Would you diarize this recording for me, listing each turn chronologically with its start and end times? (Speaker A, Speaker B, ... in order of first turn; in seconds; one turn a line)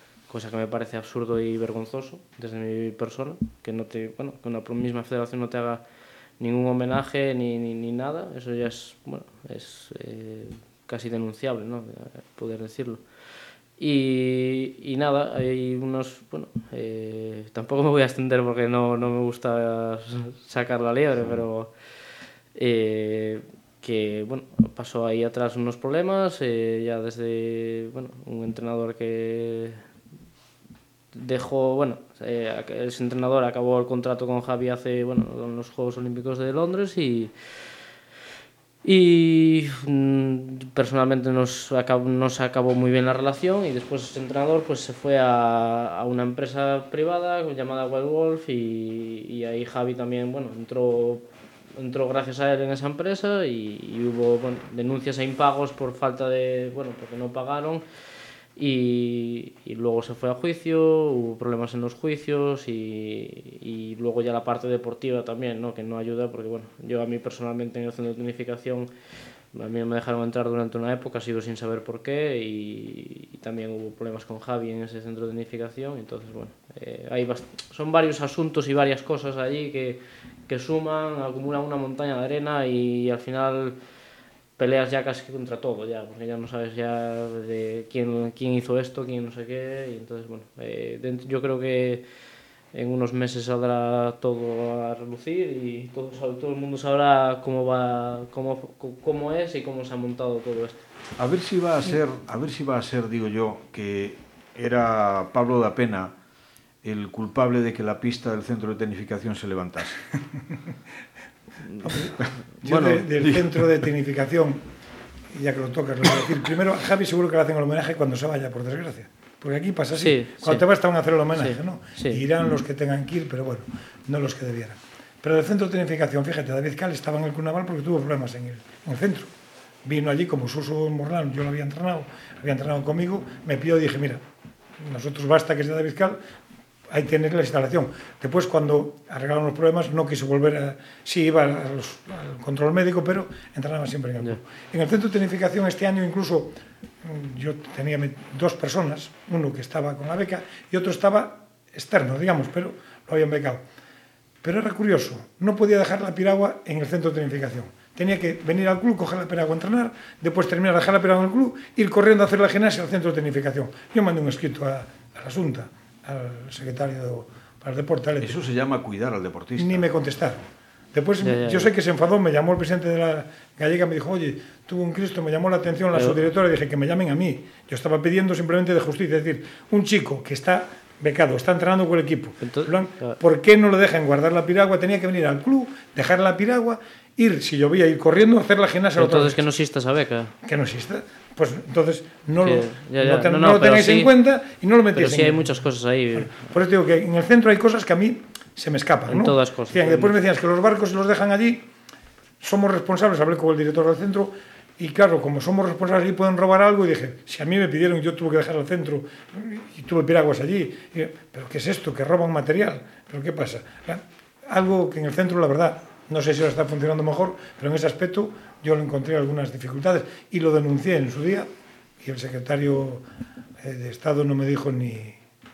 Speaker A: 0.3-5.8
Speaker A: 6.4-13.0
Speaker A: 13.8-21.7
Speaker A: 22.6-29.8
Speaker A: 31.1-37.6
Speaker A: 38.8-51.2
Speaker A: 51.8-57.8
Speaker A: 58.6-68.9
Speaker A: 69.5-83.8
Speaker A: 84.6-92.0
Speaker A: 92.7-100.8
Speaker B: 101.2-106.1
Speaker B: 106.8-110.0
Speaker A: 111.7-112.1
Speaker C: 111.8-114.6
Speaker A: 112.7-113.0
Speaker B: 112.7-113.6
Speaker C: 115.3-129.3
Speaker A: 120.0-120.6
Speaker A: 121.3-122.2
Speaker C: 129.8-134.2
Speaker C: 134.8-136.2
Speaker C: 136.9-153.6
Speaker C: 154.4-168.4
Speaker B: 168.2-169.9
Speaker C: 169.6-189.4
Speaker A: 171.2-171.7
Speaker A: 182.4-183.2
Speaker A: 189.0-190.3
Speaker C: 190.4-195.4
Speaker A: 192.4-194.1
Speaker A: 194.9-196.3
Speaker C: 196.2-201.7
Speaker A: 199.1-200.1
Speaker C: 202.4-221.5
Speaker C: 222.0-223.0
Speaker C: 223.6-225.2